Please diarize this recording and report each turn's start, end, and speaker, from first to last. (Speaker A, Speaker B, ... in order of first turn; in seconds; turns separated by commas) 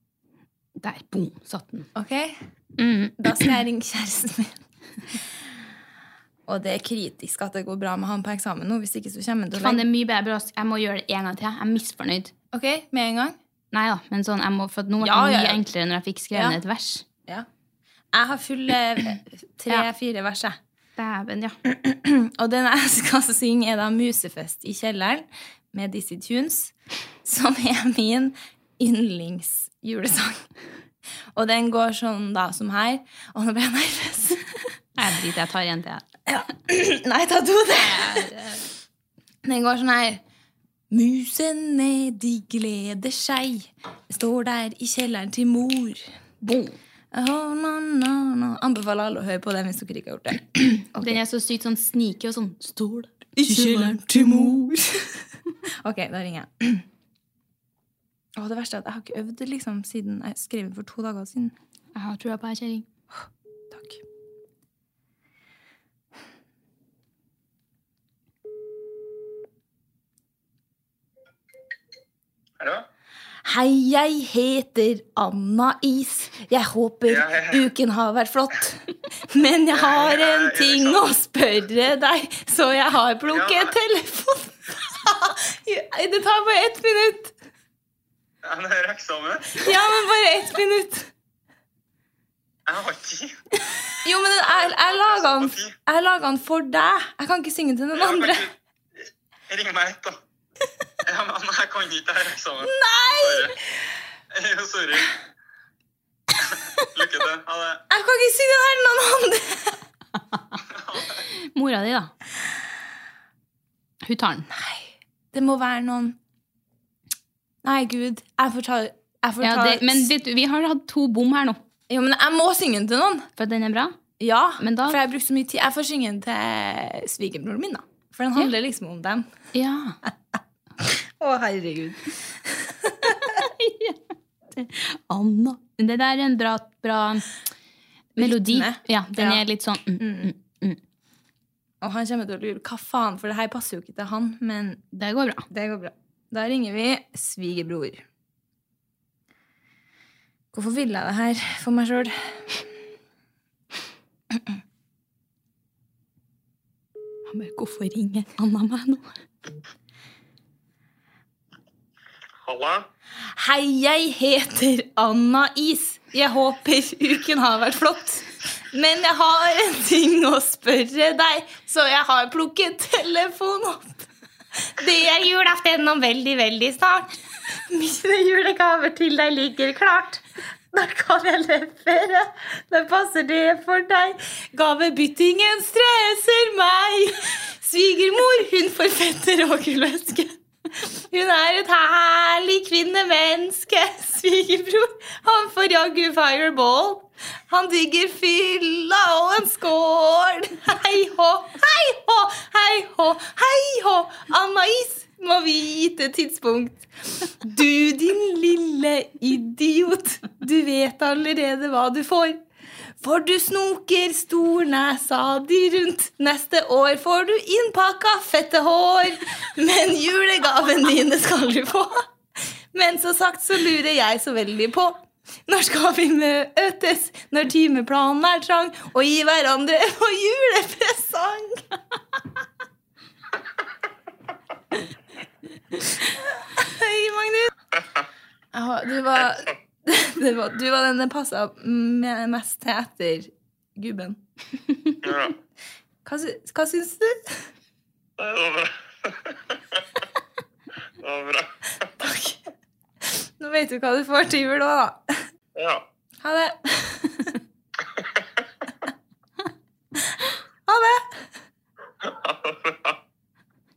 Speaker A: 0.8-1.9, Speaker B: 1.9-2.4, Speaker A: 2.8-3.5, Speaker B: 3.2-4.6, Speaker B: 6.5-9.8, Speaker A: 9.5-12.3, Speaker B: 12.5-13.4, Speaker A: 13.7-17.1, Speaker B: 15.0-15.6, Speaker B: 16.3-16.6, Speaker B: 18.1-20.6, Speaker A: 21.0-21.6, Speaker B: 21.6-30.5, Speaker B: 31.3-34.4, Speaker A: 35.0-36.0, Speaker B: 36.3-38.3, Speaker A: 37.7-38.6, Speaker B: 39.4-40.2, Speaker B: 40.9-46.0, Speaker A: 46.4-46.8, Speaker B: 47.1-51.2, Speaker A: 51.0-54.8, Speaker B: 53.4-55.1, Speaker B: 55.8-56.8, Speaker B: 58.4-61.5, Speaker A: 61.9-62.9, Speaker B: 63.7-64.0, Speaker C: 72.6-72.8, Speaker B: 73.4-87.3, Speaker C: 77.1-77.6, Speaker C: 79.7-81.1, Speaker C: 83.3-83.7, Speaker C: 88.4-89.7, Speaker B: 89.5-91.1, Speaker C: 92.7-93.4, Speaker B: 94.0-98.5, Speaker C: 94.5-95.7, Speaker C: 97.9-98.5, Speaker C: 99.5-100.2, Speaker C: 101.0-103.5, Speaker B: 102.6-103.5, Speaker C: 104.3-105.1, Speaker C: 106.4-107.8, Speaker B: 107.9-109.8, Speaker C: 110.7-111.2, Speaker A: 111.2-112.1, Speaker A: 114.0-114.5, Speaker B: 114.5-116.2, Speaker B: 117.6-120.1, Speaker A: 119.4-121.6, Speaker B: 121.9-123.3, Speaker A: 123.3-124.0, Speaker B: 124.2-129.3, Speaker A: 124.6-125.0, Speaker A: 129.5-130.0, Speaker B: 130.8-133.3, Speaker A: 133.1-134.0, Speaker A: 134.5-137.2, Speaker A: 138.2-140.8, Speaker B: 138.2-139.4, Speaker B: 140.0-140.3, Speaker B: 141.8-144.8, Speaker A: 144.9-145.5, Speaker B: 145.5-148.0, Speaker B: 150.5-152.6, Speaker A: 157.2-159.1, Speaker C: 162.4-162.8, Speaker B: 163.3-174.1, Speaker B: 174.6-212.4, Speaker B: 213.0-222.0, Speaker B: 222.7-231.6, Speaker B: 236.0-237.5, Speaker B: 238.5-244.2, Speaker C: 245.0-245.3, Speaker B: 246.0-247.4, Speaker C: 248.2-249.8, Speaker C: 251.0-251.5, Speaker B: 252.0-252.4, Speaker B: 253.1-255.2, Speaker C: 255.5-255.8, Speaker B: 256.2-257.4, Speaker B: 260.7-261.3, Speaker C: 262.0-262.9